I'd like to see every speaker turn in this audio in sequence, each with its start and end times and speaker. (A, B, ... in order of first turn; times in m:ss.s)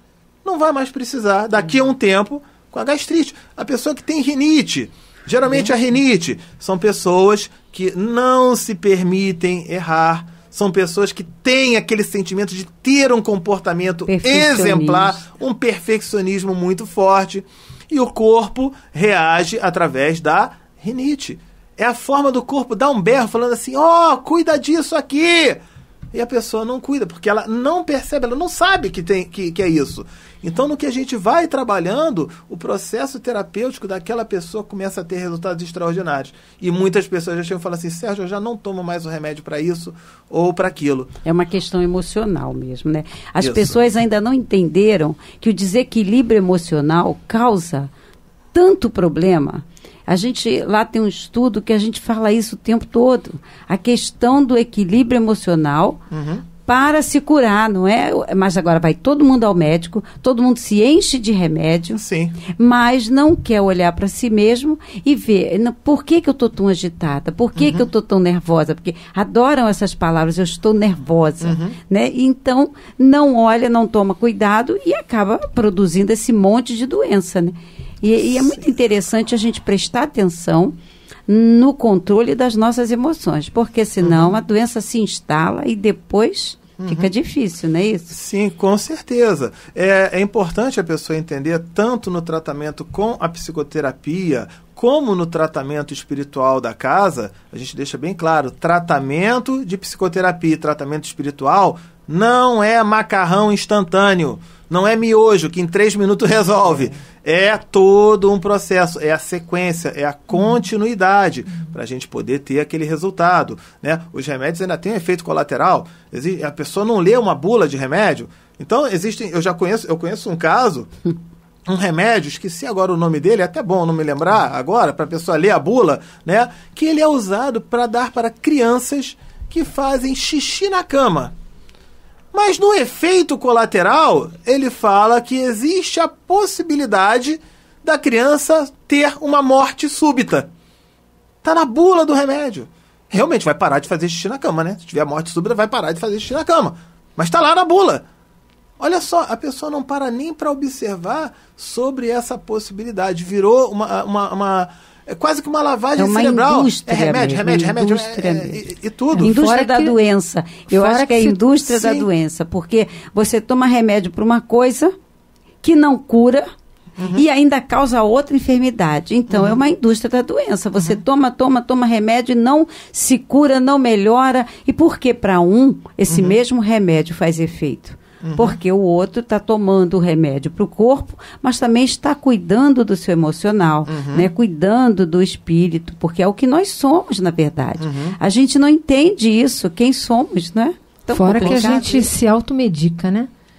0:00.4-0:25.6 A
0:14.1-0:15.2 B
0:26.1-0:41.1 A
0:41.2-0:47.9 B
0:43.4-0:43.8 A
0:48.5-0:56.0 B
0:56.1-0:56.4 A
0:56.6-1:20.7 B
1:02.0-1:02.4 A
1:07.5-1:07.9 A
1:11.4-1:11.8 A
1:18.3-1:18.6 A
1:21.3-1:28.1 B
1:24.0-1:24.4 A
1:26.8-1:27.1 A
1:28.1-2:00.9 A
2:01.6-2:11.3 A
2:12.3-2:20.5 A
2:21.4-2:28.0 A
2:28.8-2:39.3 A
2:36.0-2:44.9 B
2:39.2-2:40.0 C
2:40.7-2:41.4 C
2:41.7-2:42.1 A
2:45.6-2:46.4 B
2:47.0-2:47.2 A
2:47.1-3:12.1 B
2:49.3-2:49.6 A
2:56.1-2:56.4 A
2:58.2-2:58.6 A
3:03.9-3:04.3 A
3:07.8-3:08.2 A
3:11.1-3:13.3 C
3:11.4-3:11.7 A